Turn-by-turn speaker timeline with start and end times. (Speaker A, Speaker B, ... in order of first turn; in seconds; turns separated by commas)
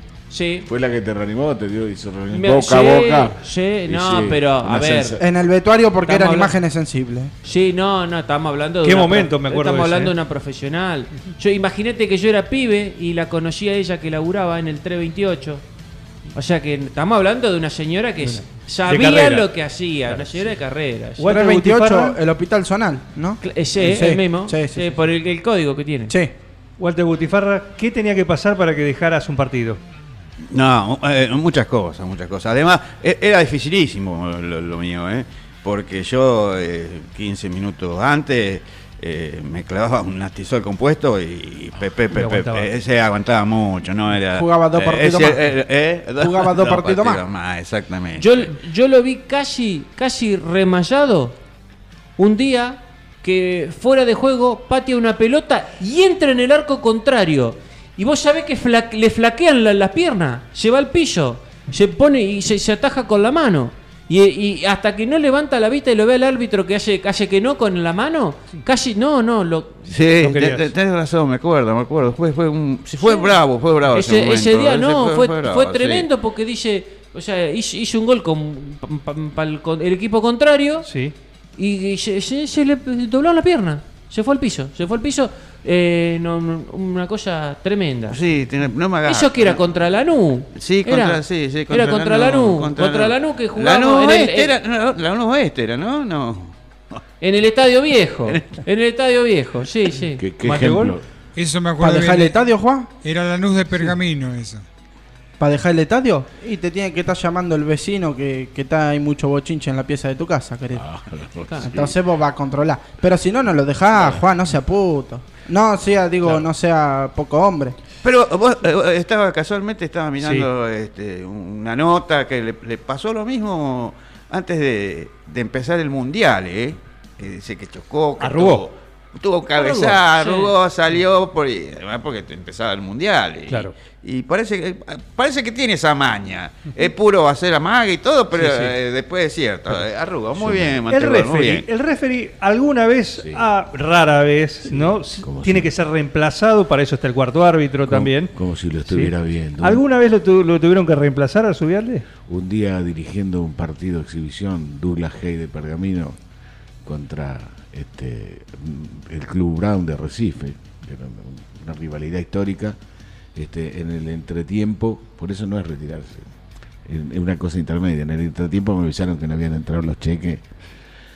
Speaker A: 0.3-0.7, Speaker B: 0.7-5.3, Speaker A: 2.3-5.2, Speaker C: 5.2-7.3, Speaker A: 6.0-6.5, Speaker A: 7.4-15.6, Speaker D: 8.8-10.1, Speaker A: 16.3-21.3, Speaker D: 18.2-19.5, Speaker D: 20.1-20.4, Speaker D: 21.2-22.2, Speaker C: 21.2-24.9, Speaker A: 23.4-26.1, Speaker D: 26.8-29.8, Speaker E: 30.5-48.5, Speaker D: 42.1-42.7, Speaker C: 44.3-45.5, Speaker C: 46.2-47.2, Speaker A: 48.2-51.4, Speaker A: 52.2-69.9, Speaker E: 69.9-76.1, Speaker D: 70.2-70.7, Speaker A: 73.0-80.9, Speaker D: 80.8-81.1, Speaker A: 81.6-88.2, Speaker E: 88.1-89.7, Speaker A: 89.0-94.5, Speaker E: 90.5-96.5, Speaker A: 97.2-100.2, Speaker B: 100.2-101.0, Speaker D: 100.4-101.0, Speaker F: 101.3-102.4, Speaker C: 101.8-102.9, Speaker F: 103.0-104.6, Speaker C: 105.4-110.8, Speaker B: 110.7-112.0, Speaker C: 111.6-117.8, Speaker B: 114.0-114.2, Speaker E: 118.0-141.7, Speaker D: 120.2-120.5, Speaker D: 128.2-128.7, Speaker A: 129.5-130.5, Speaker D: 138.3-138.7, Speaker B: 140.3-140.8, Speaker D: 140.9-148.3, Speaker B: 143.2-143.4, Speaker B: 144.7-145.7, Speaker B: 147.9-149.8, Speaker D: 148.9-152.1, Speaker B: 152.3-156.2, Speaker B: 156.8-162.8, Speaker B: 163.3-166.3, Speaker B: 166.8-170.4